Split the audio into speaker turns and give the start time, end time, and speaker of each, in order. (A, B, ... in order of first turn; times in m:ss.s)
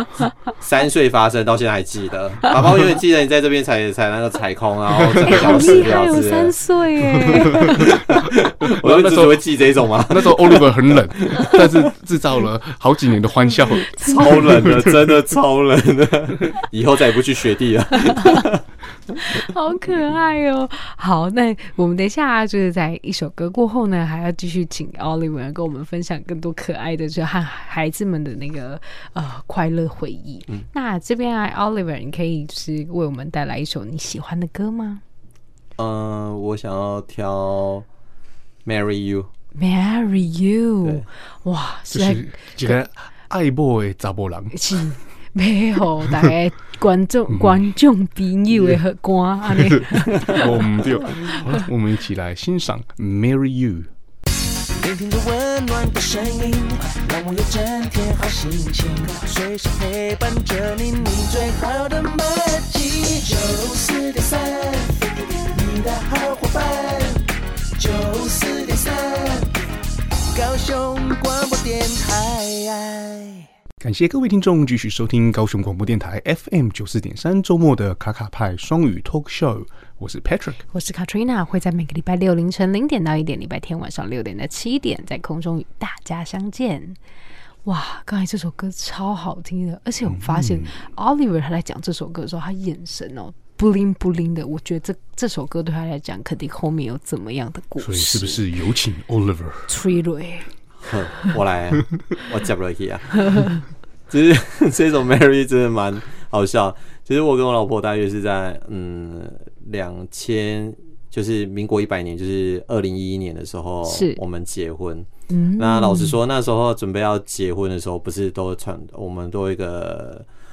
0:00.5-0:06.6 A
0:05.0-0:05.7 B
0:05.2-0:07.9 C
0:07.2-0:11.9 A
0:07.5-0:15.1 B
0:13.5-0:14.6 C
0:14.0-0:18.6 A
0:18.1-0:18.4 C
0:19.2-0:35.0 C
0:35.8-0:37.8 A
0:38.6-0:39.3 A
0:39.5-0:42.8 C
0:41.9-0:44.5 B
0:44.5-0:50.5 C
0:47.3-0:47.7 B
0:49.5-0:53.9 B
0:54.7-1:07.2 D
1:07.8-1:09.6 D
1:10.3-1:13.5 D
1:13.8-1:20.6 B
1:20.7-1:27.0 C
1:27.6-1:38.4 C
1:30.0-1:30.8 B
1:37.8-1:39.7 B
1:39.7-1:40.5 C
1:40.8-1:43.5 A
1:43.2-1:43.6 C
1:44.1-2:00.2 A
1:53.8-1:54.2 C
1:55.3-1:56.2 C